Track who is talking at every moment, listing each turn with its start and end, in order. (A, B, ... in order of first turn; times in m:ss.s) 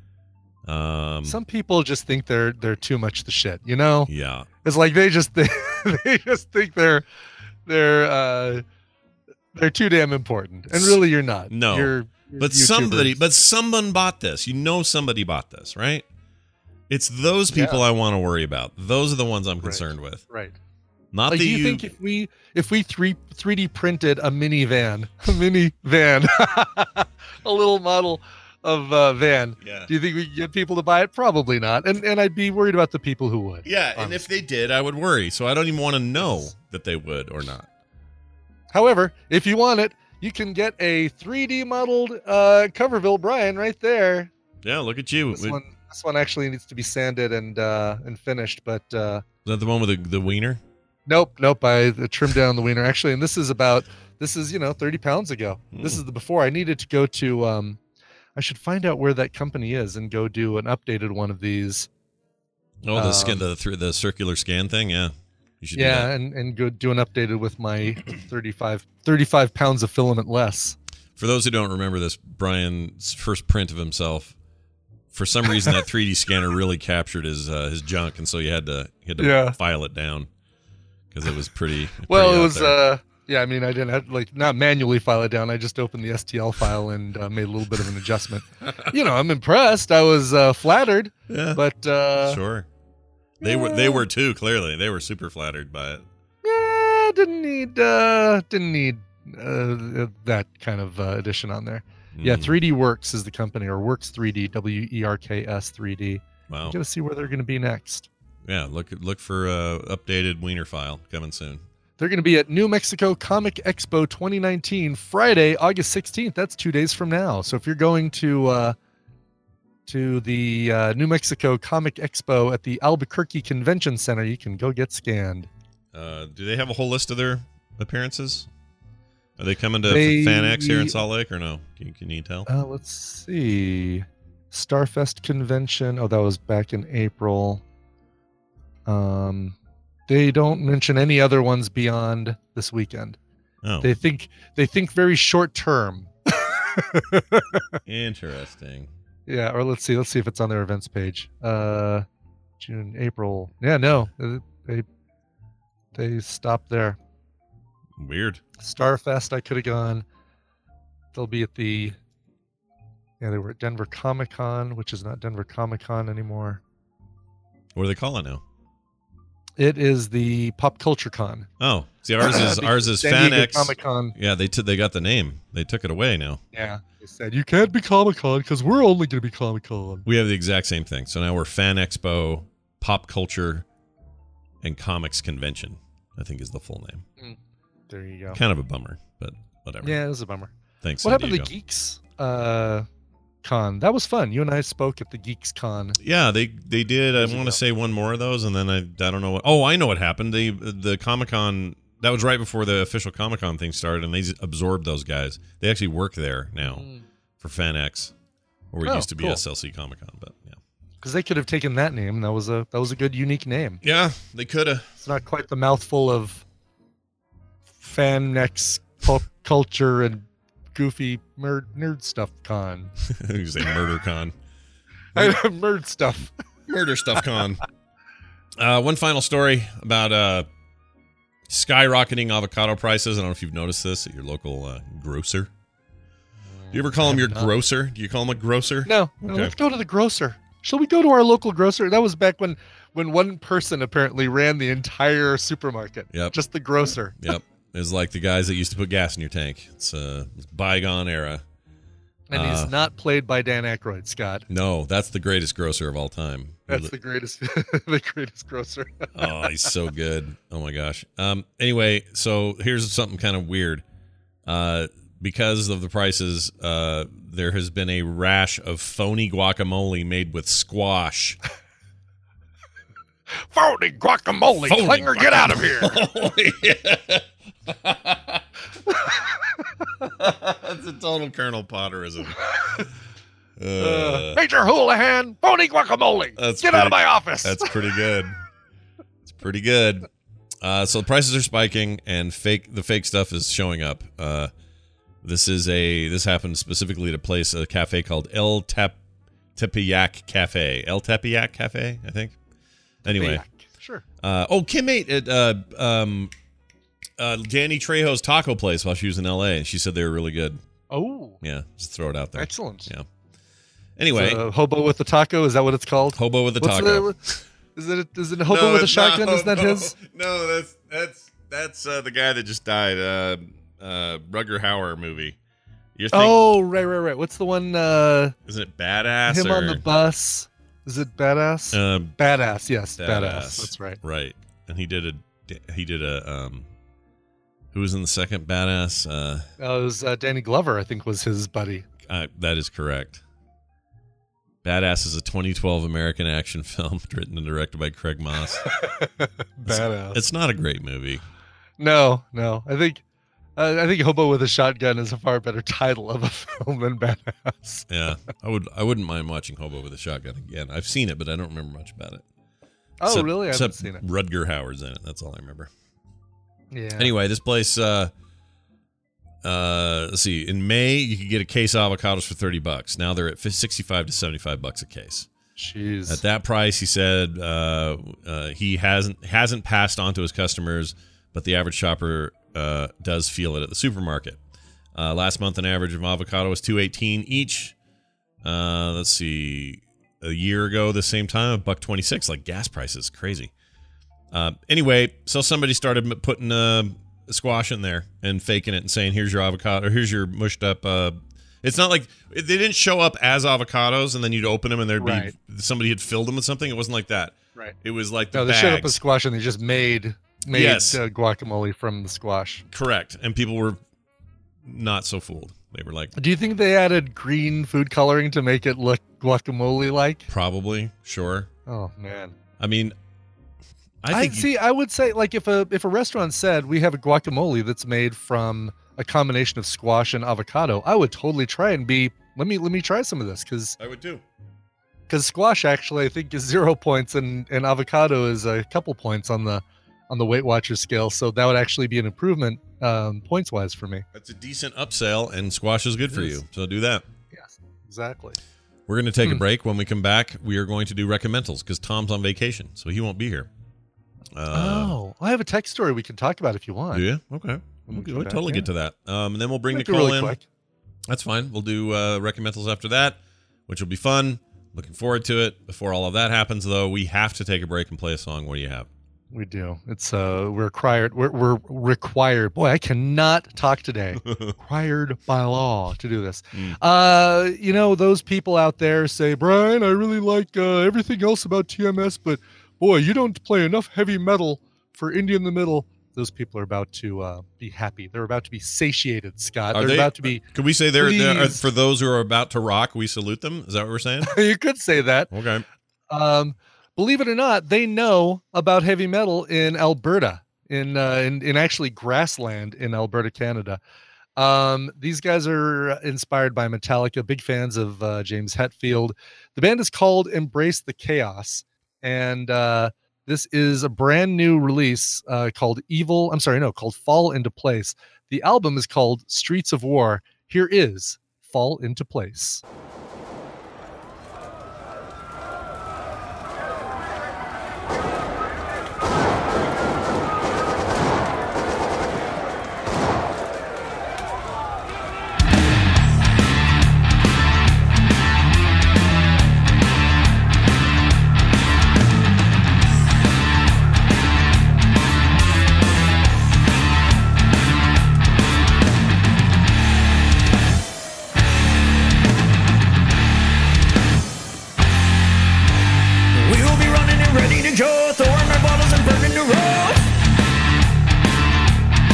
0:00.7-0:01.4 A
0:01.2-0:04.1 B
0:04.1-0:04.5 A
0:04.6-0:07.1 B
0:07.7-0:08.6 B
0:09.5-0:13.2 B
0:10.7-0:16.0 A
0:16.9-0:20.2 A
0:17.5-0:17.8 B
0:19.6-0:20.6 B
0:21.1-0:21.9 A
0:21.3-0:34.2 B
0:29.6-0:29.9 A
0:33.6-0:37.7 A
0:36.2-0:36.5 B
0:38.7-0:44.3 B
0:44.6-0:45.6 A
0:45.3-0:49.2 B
0:49.4-0:50.6 A
0:51.1-0:57.8 B
0:55.7-0:56.0 A
0:58.4-1:01.9 B
1:02.8-1:06.1 A
1:03.0-1:03.4 B
1:05.8-1:10.8 B
1:11.2-1:14.4 A
1:15.1-1:20.3 A
1:19.2-1:19.6 B
1:21.1-1:22.8 A
1:22.1-1:32.4 B
1:31.3-1:31.6 A
1:32.2-1:32.7 A
1:33.4-1:34.1 B
1:33.4-1:36.0 A
1:36.4-1:48.1 B
1:42.1-1:42.6 A
1:46.5-1:46.8 A
1:48.4-1:51.6 A
1:52.0-1:58.8 B
1:59.9-2:05.5 B
2:05.9-2:08.5 A
2:09.4-2:12.5 A
2:09.9-2:11.0 B
2:12.5-2:17.6 B
2:18.9-2:19.6 B
2:20.1-2:23.2 B
2:23.6-2:23.9 A
2:23.8-2:27.8 B
2:27.8-2:28.9 A
2:29.3-2:32.0 B
2:32.6-2:34.9 B
2:35.9-2:37.0 B
2:38.0-2:38.4 A
2:38.6-2:40.0 B
2:41.1-2:42.0 B
2:43.2-2:46.6 B
2:47.8-2:48.4 A
2:49.6-2:51.5 B
2:51.6-2:56.4 A
2:52.2-2:54.2 B
2:56.5-3:00.1 B
3:00.1-3:03.6 A
3:04.6-3:07.1 A
3:07.2-3:08.4 B
3:08.3-3:10.0 A
3:09.8-3:10.5 B
3:10.8-3:11.5 A
3:11.0-3:12.9 B
3:13.4-3:16.0 B
3:16.0-3:26.9 A
3:17.2-3:17.6 B
3:26.6-3:27.0 B
3:27.4-3:28.1 A
3:28.7-3:30.6 A
3:28.8-3:29.4 B
3:31.0-3:33.8 B
3:33.8-3:34.9 A
3:35.0-3:36.4 B
3:37.8-3:42.9 B
3:43.1-3:44.3 A
3:45.2-3:46.3 B
3:46.7-3:47.6 A
3:48.6-3:50.5 A
3:51.5-3:55.5 A
3:56.5-3:57.5 B
3:56.7-3:59.5 A
3:58.9-4:07.3 B
4:06.1-4:06.4 A
4:07.2-4:11.4 A
4:12.3-4:14.5 B
4:12.3-4:12.7 A
4:14.5-4:16.9 A
4:16.7-4:19.7 B
4:19.1-4:23.8 A
4:24.5-4:31.4 A
4:33.5-4:36.0 B
4:34.6-4:38.4 A
4:38.9-4:39.7 B
4:40.0-4:42.5 A
4:43.6-4:44.4 A
4:43.8-4:47.8 B
4:46.4-4:48.4 A
4:49.4-4:50.1 A
4:50.6-4:54.5 A
4:55.2-4:59.0 A
4:59.6-5:02.4 A
5:03.0-5:03.4 A
5:03.0-5:04.0 B
5:04.2-5:06.3 A
5:07.2-5:10.6 A
5:10.9-5:11.4 B
5:11.4-5:13.0 A
5:12.4-5:12.9 B
5:14.0-5:14.4 A
5:14.1-5:17.2 B
5:16.2-5:17.4 A
5:17.8-5:19.9 B
5:18.5-5:25.4 A
5:26.0-5:26.4 A
5:26.1-5:28.4 B
5:28.5-5:29.8 A
5:29.3-5:34.0 B
5:31.7-5:32.2 A
5:33.0-5:36.7 A
5:37.7-5:39.5 A
5:39.6-5:41.9 B
5:42.1-5:43.2 A
5:44.6-5:48.7 A
5:48.6-5:50.2 B
5:49.7-5:51.2 A
5:51.8-5:53.0 B
5:53.6-5:57.9 B
5:57.9-6:02.2 A
6:03.0-6:04.0 B
6:03.1-6:05.7 A
6:06.7-6:07.1 B
6:07.0-6:08.1 A
6:09.4-6:15.3 A
6:15.6-6:16.2 B
6:16.1-6:24.4 A
6:25.0-6:27.7 A
6:28.4-6:33.5 A
6:34.3-6:49.0 A
6:45.0-6:45.3 B
6:48.3-6:52.6 B
6:50.5-6:51.0 A
6:52.7-6:53.8 A
6:54.7-6:56.2 A
6:56.2-7:00.3 B
7:00.3-7:01.5 A
7:01.7-7:02.4 B
7:02.6-7:03.0 A
7:04.0-7:04.5 A
7:04.1-7:13.8 B
7:13.8-7:14.2 A
7:15.1-7:24.0 B
7:24.1-7:27.0 A
7:26.1-7:26.4 B
7:27.3-7:28.4 B
7:28.9-7:33.5 A
7:34.4-7:35.0 A
7:34.5-7:37.1 B
7:36.9-7:40.4 A
7:37.9-7:38.7 B
7:39.7-7:40.4 B
7:41.1-7:48.9 A
7:49.3-8:10.4 B
7:54.2-7:54.6 A
8:09.7-8:14.4 A
8:11.0-8:11.6 B
8:14.2-8:15.3 B
8:15.3-8:15.6 A
8:16.1-8:23.8 B
8:24.4-8:42.6 B
9:16.3-9:20.1 C